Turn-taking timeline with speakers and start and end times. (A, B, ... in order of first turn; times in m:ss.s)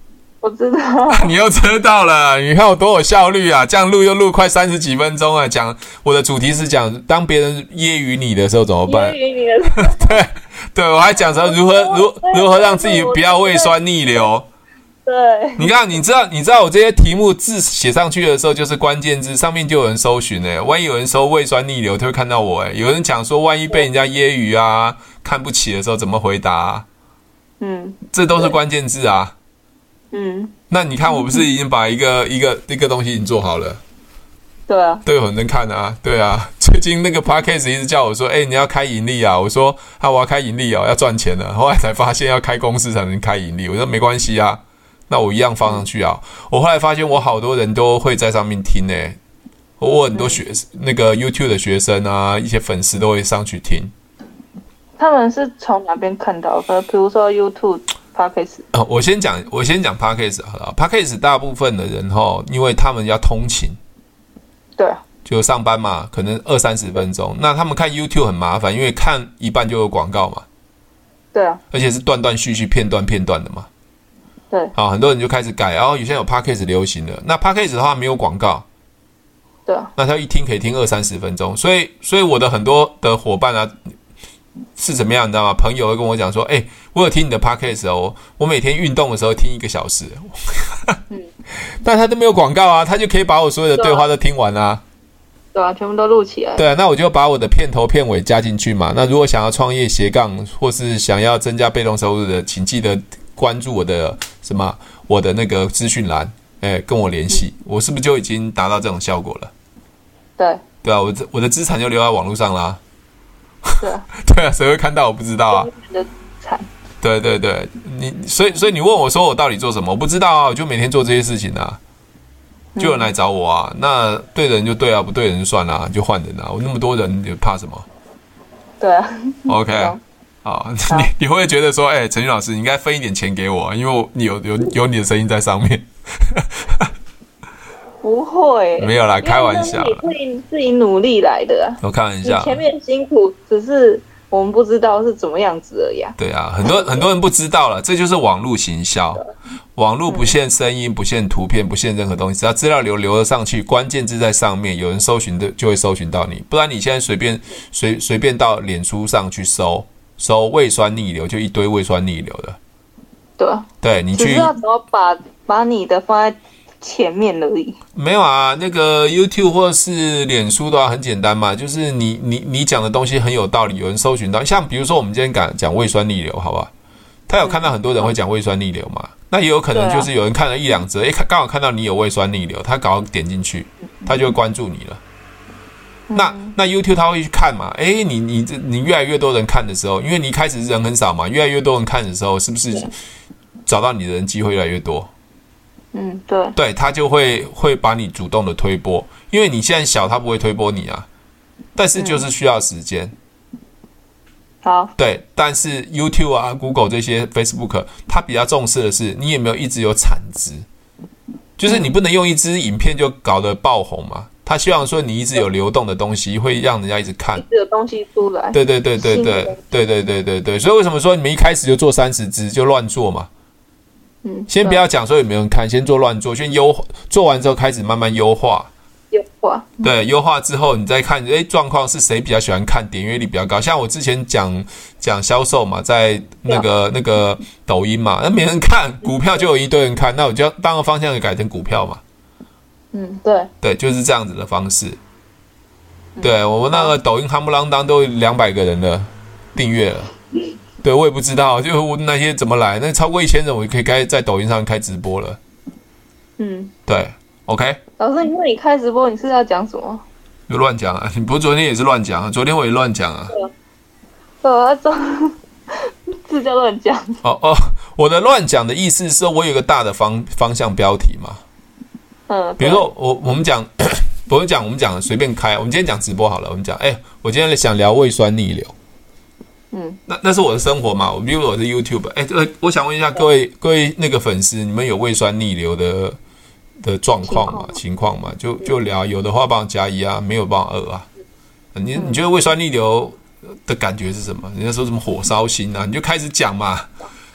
0:00.4-0:01.3 A
0:01.1-0:09.2 B
0:08.8-0:10.2 A
0:09.8-0:14.4 B
0:11.2-0:13.7 A
0:15.0-0:15.7 A
0:15.6-0:26.8 B
0:27.6-0:28.5 A
0:28.1-0:29.3 B
0:30.1-0:30.5 A
0:30.7-0:33.8 B
0:31.1-0:31.4 A
0:34.7-0:35.0 A
0:35.0-0:49.2 B
0:49.8-0:53.9 B
0:50.1-0:50.4 A
0:55.0-0:58.6 A
0:58.7-1:03.8 B
1:04.8-1:05.0 A
1:05.2-1:10.4 B
1:11.3-1:11.6 A
1:11.7-1:13.7 B
1:14.7-1:18.6 B
1:19.6-1:19.9 A
1:20.0-1:23.8 B
1:24.8-1:31.0 B
1:31.8-1:34.8 B
1:33.8-1:34.0 A
1:35.5-1:36.6 A
1:36.6-1:49.5 B
1:50.8-1:52.8 B
1:53.6-1:55.7 B
1:53.8-1:54.0 A
1:55.5-1:56.7 A
1:57.0-2:01.8 B
2:02.7-2:03.1 A
2:02.8-2:07.8 B
2:08.8-2:10.0 A
2:09.5-2:16.9 B
2:18.0-2:27.1 A
2:18.8-2:20.1 B
2:21.8-2:22.6 B
2:26.2-2:29.2 B
2:29.8-2:42.6 B
2:30.1-2:30.3 A
2:43.4-2:47.8 A
2:43.8-2:44.5 B
2:47.9-2:56.7 B
2:57.3-3:05.0 B
2:57.4-2:58.1 A
2:59.7-3:00.1 A
3:06.1-3:06.6 A
3:06.1-3:12.9 B
3:13.6-3:15.1 B
3:15.9-3:16.6 A
3:16.5-3:21.1 B
3:21.8-3:23.1 B
3:22.0-3:22.2 A
3:24.6-3:24.9 A
3:25.0-3:30.6 B
3:31.6-3:37.4 B
3:31.6-3:31.9 A
3:37.3-3:39.6 A
3:38.5-3:43.3 B
3:44.2-3:44.8 A
3:44.5-3:48.7 B
3:49.1-3:49.9 A
3:49.8-4:02.0 B
4:02.9-4:03.5 A
4:03.6-4:05.0 B
4:06.2-4:06.9 A
4:06.2-4:10.1 B
4:10.8-4:15.4 B
4:16.4-4:16.7 A
4:16.9-4:17.8 B
4:18.0-4:20.0 A
4:20.5-4:23.3 B
4:24.4-4:27.2 A
4:27.2-4:31.4 B
4:32.3-4:32.8 A
4:32.6-4:38.7 B
4:39.7-4:40.0 A
4:40.1-4:46.2 B
4:46.8-4:51.1 B
4:47.2-4:47.8 A
4:51.7-4:56.9 B